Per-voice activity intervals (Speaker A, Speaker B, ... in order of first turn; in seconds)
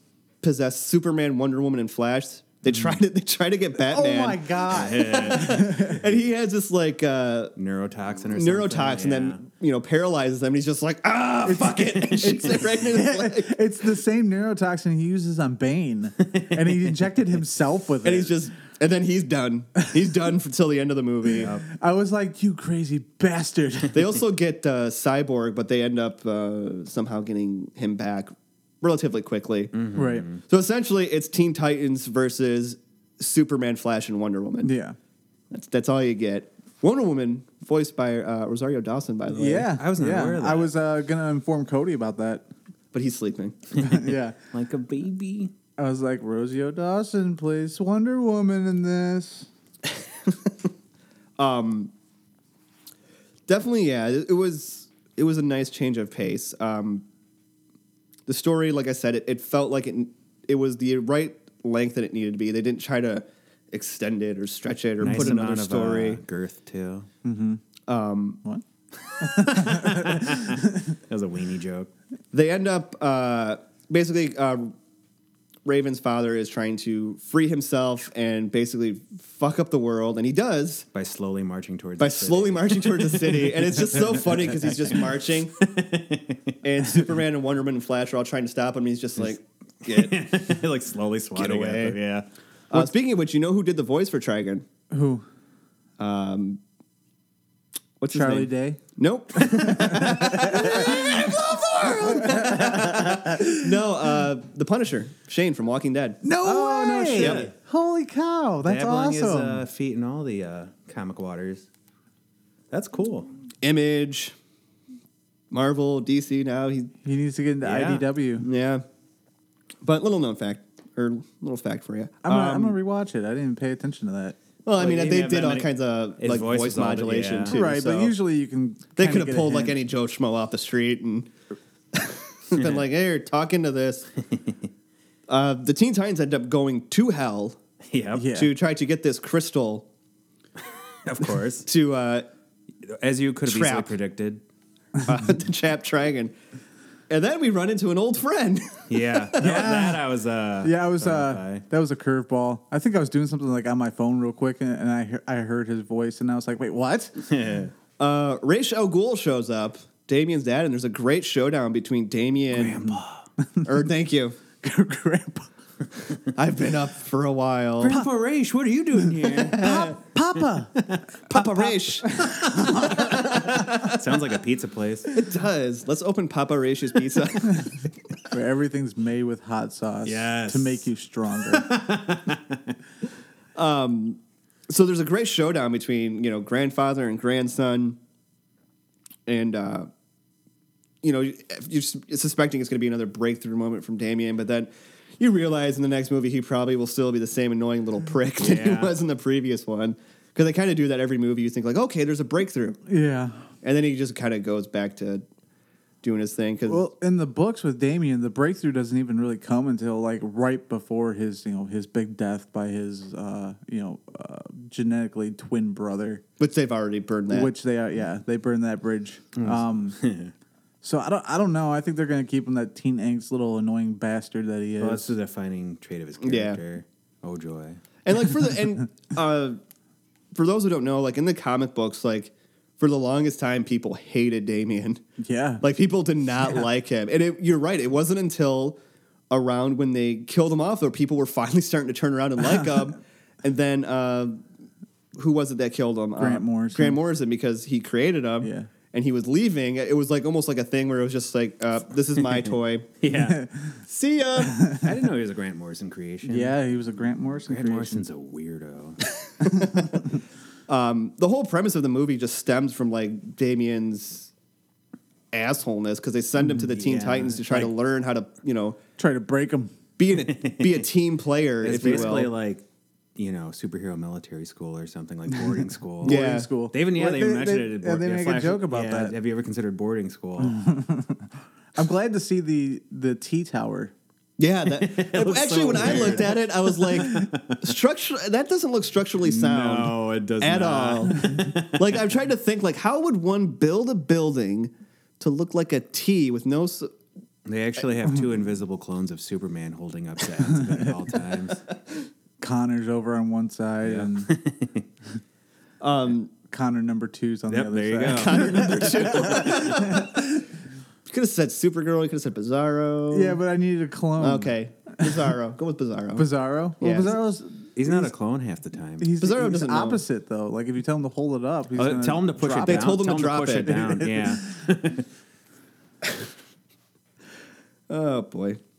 Speaker A: 0.4-7.5, 8.3-13.6, 18.0-21.5, 23.9-29.7, 30.4-34.7, 35.5-39.7, 42.9-43.6, 51.4-51.9, 53.5-57.0, 58.3-66.2, 67.9-68.4, 72.3-74.7, 75.7-80.8, 82.0-85.5, 86.6-90.2, 91.3-92.0, 92.7-94.6, 96.0-96.6, 98.0-106.2, 107.2-107.5, 113.6-114.3, 115.5-116.9, 118.4-118.8, 119.8-122.8, 124.6-128.1, 128.9-131.3, 131.9-134.1, 135.3-137.6, 138.3-139.9, 141.6-142.3, 143.5-143.9, 145.0-146.3, 147.1-149.3, 158.0-162.8, 163.6-164.4, 166.3-168.0, 169.5-169.9, 171.3-174.0, 175.1-177.7, 183.6-188.0, 189.3-189.9, 191.0-202.8, 203.6-205.2, 206.0-206.8, 216.4-217.5, 226.2-226.6, 228.1-229.6, 230.3-235.0, 235.6-238.8, 239.3-244.4, 245.1-252.9, 253.9-254.6, 259.4-259.9, 260.7-264.3, 265.3-268.8, 270.0-272.3, 276.0-276.5, 284.4-296.9, 305.8-306.3, 308.1-310.2, 311.1-313.4, 314.2-317.2, 319.2-320.0, 322.6-324.0, 327.9-328.6
Speaker B: 3.9-6.1, 11.4-18.4, 21.4-24.0, 29.9-30.2, 34.6-35.0, 39.3-42.4, 43.8-44.4, 45.8-49.5, 67.2-67.6, 69.2-70.9, 94.9-95.2, 98.1-98.8, 99.4-103.6, 106.2-109.7, 117.0-118.5, 122.2-124.4, 127.5-129.8, 138.1-138.5, 149.4-150.0, 150.6-157.3, 164.6-165.5, 167.8-168.1, 168.9-170.8, 172.0-173.9, 178.3-181.7, 202.9-203.4, 206.7-216.2, 217.3-220.0, 220.8-225.1, 235.2-235.6, 242.5-242.8, 246.2-247.0, 248.4-248.7, 253.1-253.8, 254.4-255.0, 256.2-258.0, 259.4-260.1, 269.0-269.8, 275.4-279.1, 280.4-283.9, 285.7-286.3, 287.0-287.3, 300.5-300.9, 302.4-304.3, 306.5-310.4, 313.1-315.3, 316.1-318.1, 319.0-323.0, 323.6-324.5
Speaker C: 4.7-5.7, 7.5-9.4, 16.2-16.8, 21.4-21.6, 29.7-30.4, 39.8-40.7, 43.7-45.5, 65.0-67.1, 69.1-71.9, 80.9-84.3, 85.6-86.5, 89.8-92.3, 106.4-107.5, 108.6-111.7, 112.7-113.3, 117.6-118.0, 124.8-127.5, 137.9-138.3, 141.0-141.7, 142.8-144.4, 148.9-151.6, 157.3-157.7, 162.5-163.2, 167.8-169.9, 170.5-171.1, 172.2-175.1, 180.0-180.9, 181.5-182.7, 198.4-198.9, 219.4-220.3, 224.8-227.8, 253.0-253.4, 254.8-256.6, 257.4-259.0, 266.7-267.7, 270.2-270.9, 271.6-272.6, 273.1-280.6, 284.7-287.6, 289.3-292.0, 297.4-301.6, 303.8-304.9, 307.5-310.0, 317.8-319.1, 321.8-325.1